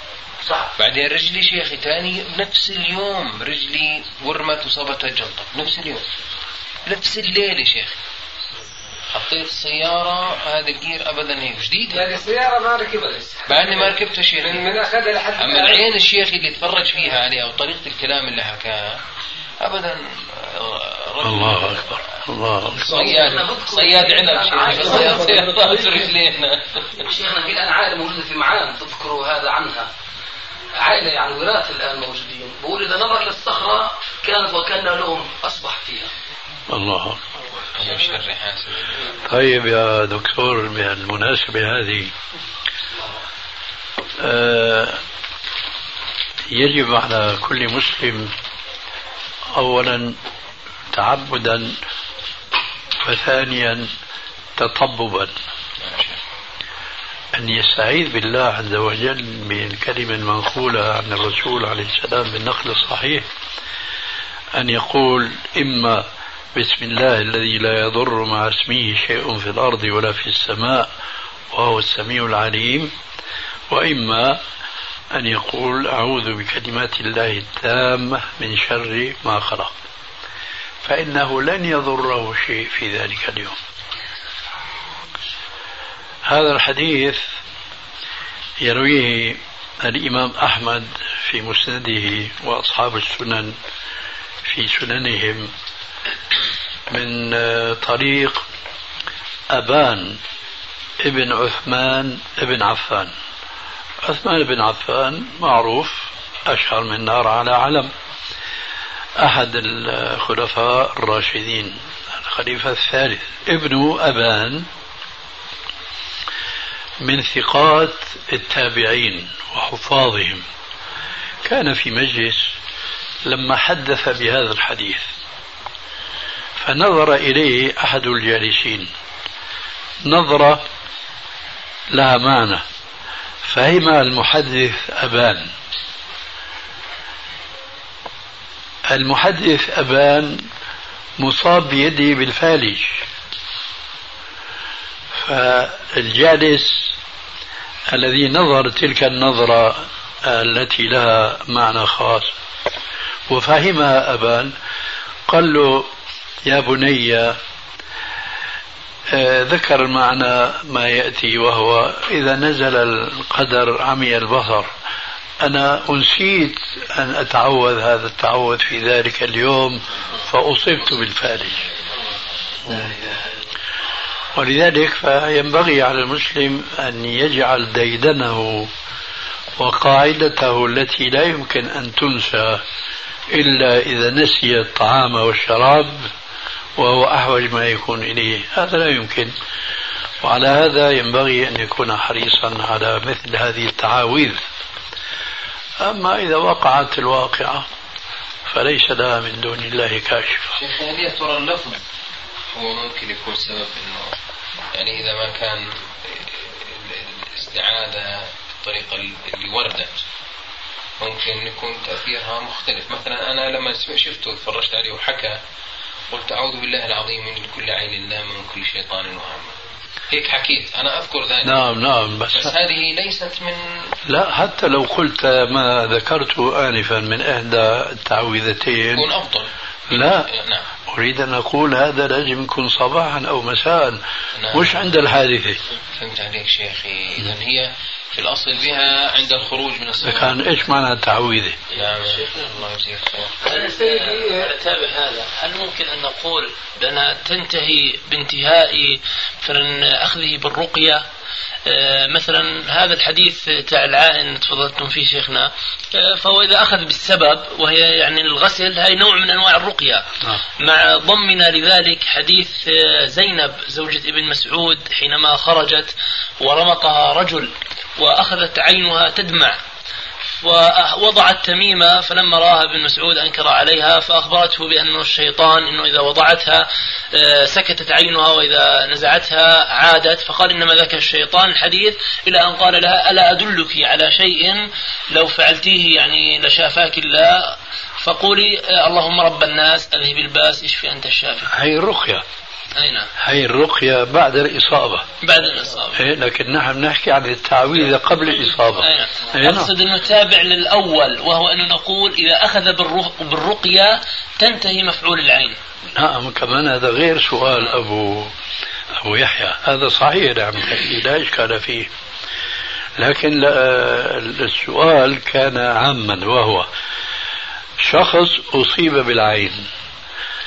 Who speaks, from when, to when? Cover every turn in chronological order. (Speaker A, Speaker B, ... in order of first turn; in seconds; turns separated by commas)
Speaker A: 0.8-6.1, Speaker A: 6.9-8.0, Speaker A: 9.1-12.1, Speaker B: 11.9-13.9, Speaker A: 13.5-14.7, Speaker B: 14.4-15.9, Speaker A: 15.4-19.0, Speaker A: 19.6-21.9, Speaker C: 21.2-23.0, Speaker A: 22.8-27.0, Speaker D: 22.8-26.1, Speaker D: 27.0-29.9, Speaker D: 30.8-36.1, Speaker C: 36.7-37.2, Speaker A: 37.6-39.2, Speaker C: 39.2-42.1, Speaker C: 44.2-45.0, Speaker C: 46.5-48.3, Speaker C: 49.5-50.2, Speaker C: 50.9-51.8, Speaker C: 53.0-53.9, Speaker C: 54.6-55.3, Speaker A: 55.8-56.2, Speaker C: 57.4-63.3, Speaker C: 64.5-70.9, Speaker C: 71.5-73.0, Speaker C: 73.7-74.4, Speaker C: 75.1-79.8, Speaker C: 80.8-83.6, Speaker C: 86.2-87.2, Speaker C: 88.6-93.6, Speaker C: 94.4-95.5, Speaker C: 96.9-98.4, Speaker C: 99.5-100.2, Speaker C: 101.0-103.1, Speaker C: 104.0-107.9, Speaker C: 109.2-114.7, Speaker C: 117.0-120.5, Speaker C: 121.4-122.5, Speaker C: 123.3-125.1, Speaker C: 126.6-128.9, Speaker C: 130.1-130.7, Speaker C: 131.9-132.6, Speaker C: 133.4-135.5, Speaker C: 138.9-140.4, Speaker C: 141.2-143.0, Speaker C: 145.2-147.0, Speaker C: 147.9-152.3, Speaker C: 153.3-154.5, Speaker C: 155.3-155.9, Speaker C: 156.4-157.4, Speaker C: 159.1-164.7, Speaker C: 165.4-171.6, Speaker C: 174.3-178.7, Speaker C: 179.6-182.6, Speaker C: 183.3-186.1, Speaker C: 186.8-189.3, Speaker C: 190.2-194.4, Speaker C: 195.8-197.7, Speaker C: 198.5-200.6, Speaker A: 200.5-201.8, Speaker A: 202.5-204.2, Speaker A: 204.7-210.0, Speaker A: 211.0-215.4, Speaker A: 216.1-219.6, Speaker A: 220.1-221.7, Speaker C: 221.4-222.5, Speaker A: 222.3-223.8, Speaker C: 224.1-229.1, Speaker A: 228.9-230.7, Speaker C: 229.9-230.3, Speaker C: 230.9-235.6, Speaker A: 234.4-234.8, Speaker A: 235.9-240.5, Speaker C: 240.0-241.6, Speaker A: 241.7-243.3, Speaker E: 242.0-242.5, Speaker E: 243.4-251.0, Speaker B: 243.4-244.5, Speaker E: 251.7-260.1, Speaker E: 260.6-269.6, Speaker E: 270.4-291.5, Speaker C: 291.5-292.2, Speaker E: 292.8-293.1, Speaker C: 293.2-295.1, Speaker E: 295.2-296.0, Speaker C: 295.9-299.7, Speaker E: 298.7-305.6, Speaker C: 305.9-308.3, Speaker C: 309.0-311.9, Speaker C: 313.0-316.7, Speaker C: 317.8-319.7